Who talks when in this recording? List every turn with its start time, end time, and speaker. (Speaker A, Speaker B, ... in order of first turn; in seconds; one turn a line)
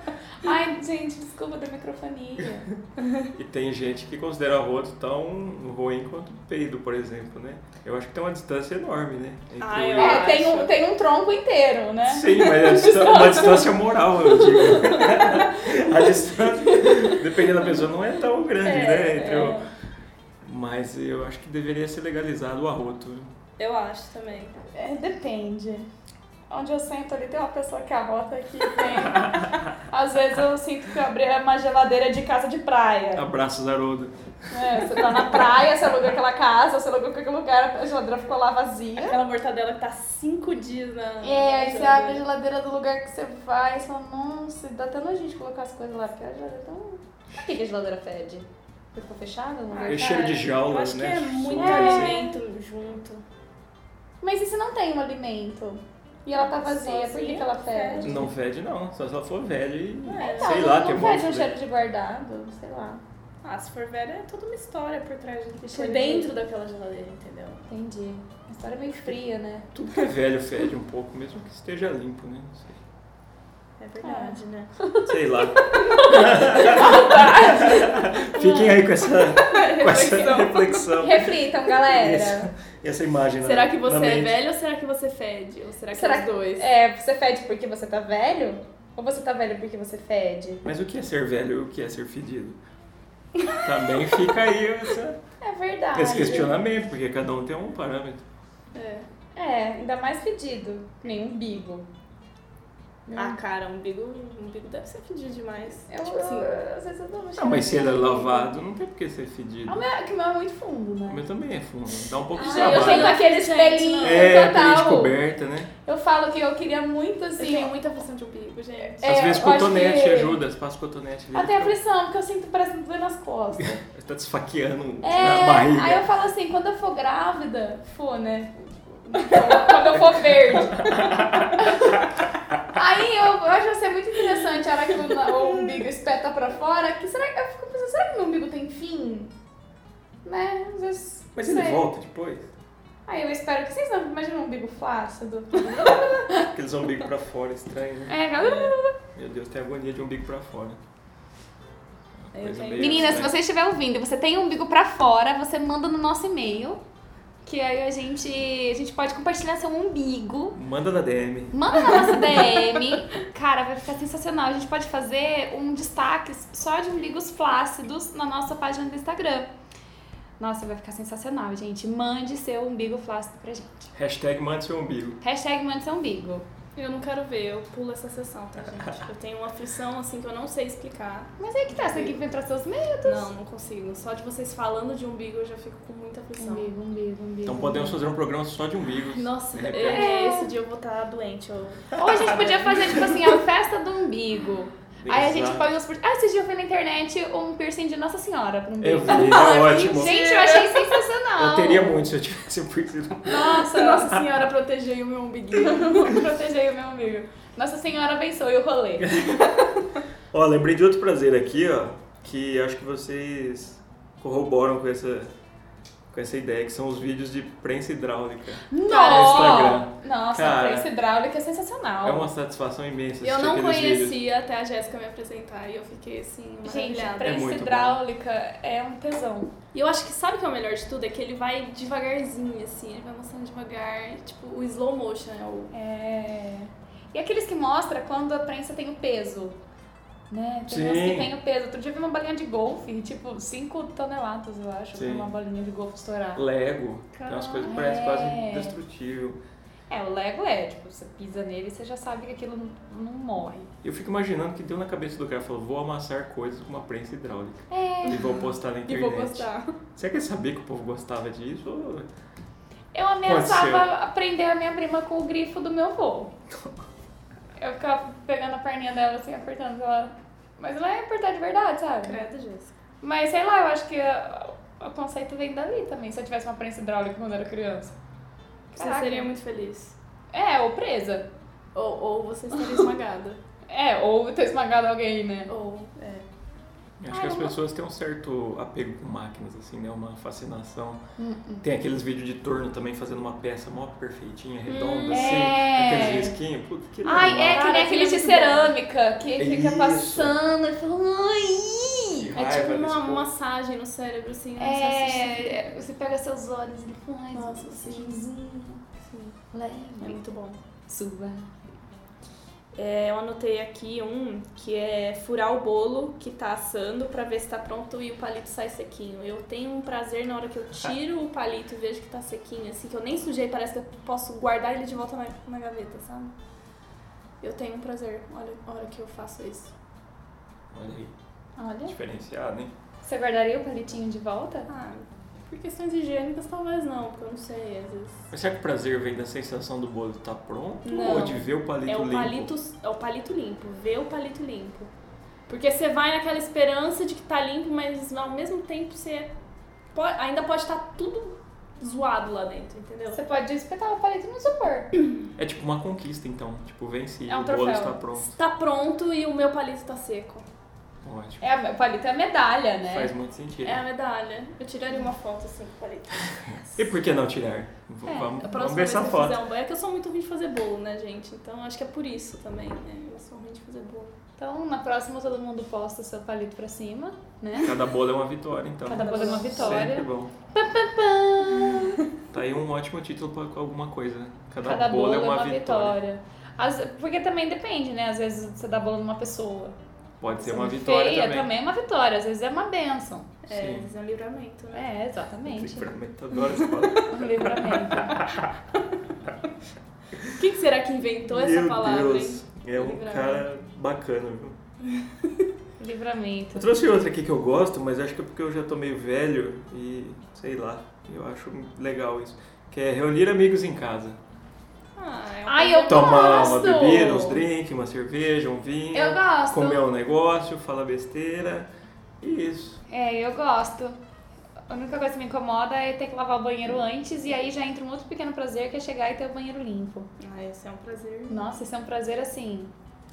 Speaker A: 0.4-2.7
Speaker B: 3.0-3.2
Speaker C: 3.3-10.4
Speaker B: 9.6-10.7
Speaker A: 10.0-13.7
Speaker C: 12.1-19.6
Speaker B: 16.8-17.2
Speaker B: 18.6-19.7
Speaker C: 20.4-23.3
Speaker B: 23.6-24.6
Speaker A: 24.7-25.9
Speaker A: 26.5-33.2
Speaker C: 33.1-34.1
Speaker A: 34.5-39.1
Speaker C: 34.7-35.2
Speaker B: 39.0-42.2
Speaker A: 41.2-50.3
Speaker B: 49.7-53.2
Speaker C: 49.9-52.2
Speaker A: 51.6-52.4
Speaker A: 54.2-58.2
Speaker B: 56.3-58.2
Speaker C: 58.0-61.5
Speaker B: 60.0-60.6
Speaker A: 60.2-63.0
Speaker B: 63.4-67.6
Speaker A: 65.6-66.3
Speaker A: 67.7-69.7
Speaker C: 69.7-72.8
Speaker B: 73.8-74.7
Speaker A: 74.0-78.7
Speaker C: 75.0-84.4
Speaker B: 75.9-76.9
Speaker B: 79.3-81.1
Speaker A: 81.0-82.5
Speaker B: 83.4-86.7
Speaker A: 85.9-90.6
Speaker C: 90.6-92.6
Speaker C: 93.6-95.2
Speaker A: 95.4-96.6
Speaker C: 95.9-98.2
Speaker B: 98.7-99.1
Speaker A: 99.3-101.9
Speaker A: 103.1-103.4
Speaker B: 103.1-106.5
Speaker A: 105.9-108.5
Speaker C: 107.4-109.8
Speaker A: 109.7-111.2
Speaker C: 111.1-113.2
Speaker A: 112.3-115.1
Speaker B: 112.4-114.4
Speaker C: 114.0-115.7
Speaker A: 115.8-117.7
Speaker B: 117.4-119.1
Speaker A: 119.0-120.4
Speaker C: 119.0-121.7
Speaker A: 121.3-123.8
Speaker C: 123.6-126.0
Speaker A: 125.0-132.0
Speaker B: 129.4-129.8
Speaker C: 130.8-131.4
Speaker A: 132.7-139.3
Speaker A: 140.2-141.8
Speaker C: 141.3-142.5
Speaker A: 143.1-146.5
Speaker C: 146.4-148.2
Speaker A: 148.1-148.9
Speaker B: 148.4-148.7
Speaker C: 149.1-150.8
Speaker C: 152.2-153.3
Speaker B: 152.3-153.3
Speaker A: 152.8-156.8
Speaker A: 157.4-160.6
Speaker C: 160.5-161.6
Speaker A: 161.5-169.5
Speaker A: 170.4-173.9
Speaker C: 173.9-175.2
Speaker A: 175.2-176.4
Speaker B: 176.8-182.2
Speaker A: 181.4-183.3
Speaker B: 183.0-186.7
Speaker A: 186.4-188.0
Speaker C: 187.4-190.1
Speaker B: 189.1-192.4
Speaker A: 189.9-190.5
Speaker A: 192.0-202.0
Speaker C: 195.0-195.7
Speaker C: 198.8-200.1
Speaker B: 199.1-200.9
Speaker C: 201.4-203.5
Speaker A: 203.2-204.2
Speaker B: 203.5-206.2
Speaker A: 205.6-209.3
Speaker C: 209.0-209.4
Speaker C: 210.3-215.3
Speaker C: 216.1-220.9
Speaker A: 218.7-222.3
Speaker B: 218.9-219.7
Speaker C: 222.0-224.2
Speaker B: 223.2-227.4
Speaker A: 226.6-229.5
Speaker C: 227.2-228.0
Speaker B: 229.7-235.7
Speaker A: 235.7-239.6
Speaker A: 240.3-246.4
Speaker C: 240.7-241.3
Speaker C: 244.9-245.3
Speaker C: 246.3-249.4
Speaker A: 247.1-248.7
Speaker A: 249.9-253.7
Speaker C: 253.8-262.1
Speaker A: 257.7-258.2
Speaker B: 258.1-259.8
Speaker A: 262.9-266.3
Speaker C: 263.2-263.9
Speaker A: 267.6-272.2
Speaker B: 272.0-272.7
Speaker A: 273.0-277.9
Speaker A: 278.7-279.3
Speaker B: 278.8-279.9
Speaker A: 280.3-281.3
Speaker B: 281.7-283.4
Speaker A: 283.7-285.5
Speaker B: 285.5-286.2
Speaker C: 287.0-291.0
Speaker A: 287.1-287.5
Speaker A: 291.2-291.6
Speaker C: 291.6-297.7
Speaker B: 294.6-295.5
Speaker A: 295.1-296.3
Speaker A: 297.0-302.3
Speaker B: 297.4-298.7
Speaker C: 299.4-300.3
Speaker C: 302.1-303.3
Speaker B: 302.3-305.7
Speaker A: 304.6-308.8
Speaker B: 307.3-308.3
Speaker B: 309.0-309.4
Speaker A: 309.5-310.2
Speaker B: 310.0-310.6
Speaker A: 310.9-311.5
Speaker B: 312.7-326.3
Speaker B: 327.4-329.7
Speaker C: 330.7-331.1
Speaker A: 331.6-331.9
Speaker C: 331.9-332.7
Speaker A: 333.0-334.7
Speaker B: 334.7-338.3
Speaker C: 338.3-342.5
Speaker B: 340.8-344.9
Speaker B: 345.5-349.3
Speaker B: 349.9-353.2
Speaker A: 353.1-354.9
Speaker C: 355.4-358.3
Speaker A: 357.3-358.0
Speaker B: 358.3-360.4
Speaker C: 361.0-361.4
Speaker A: 361.4-363.1
Speaker C: 362.9-363.8
Speaker B: 363.6-366.4
Speaker C: 366.7-369.4
Speaker A: 368.1-368.3
Speaker B: 368.4-374.1
Speaker A: 374.4-377.8
Speaker C: 377.6-380.3
Speaker A: 378.9-382.0
Speaker B: 378.9-379.9
Speaker C: 382.3-385.9
Speaker A: 384.6-389.7
Speaker C: 390.2-391.5
Speaker A: 390.4-393.3
Speaker B: 393.4-394.9
Speaker C: 393.5-393.9
Speaker A: 394.7-395.9
Speaker C: 395.4-398.4
Speaker A: 397.1-398.2
Speaker B: 400.3-403.4
Speaker C: 401.3-404.6
Speaker B: 404.9-405.4
Speaker A: 405.8-406.7
Speaker C: 406.5-414.2
Speaker B: 414.9-416.5
Speaker A: 415.5-417.4
Speaker C: 415.9-421.7
Speaker A: 418.9-419.9
Speaker C: 422.2-422.8
Speaker A: 422.9-424.0
Speaker A: 424.7-430.1
Speaker B: 430.2-431.4
Speaker A: 431.3-432.7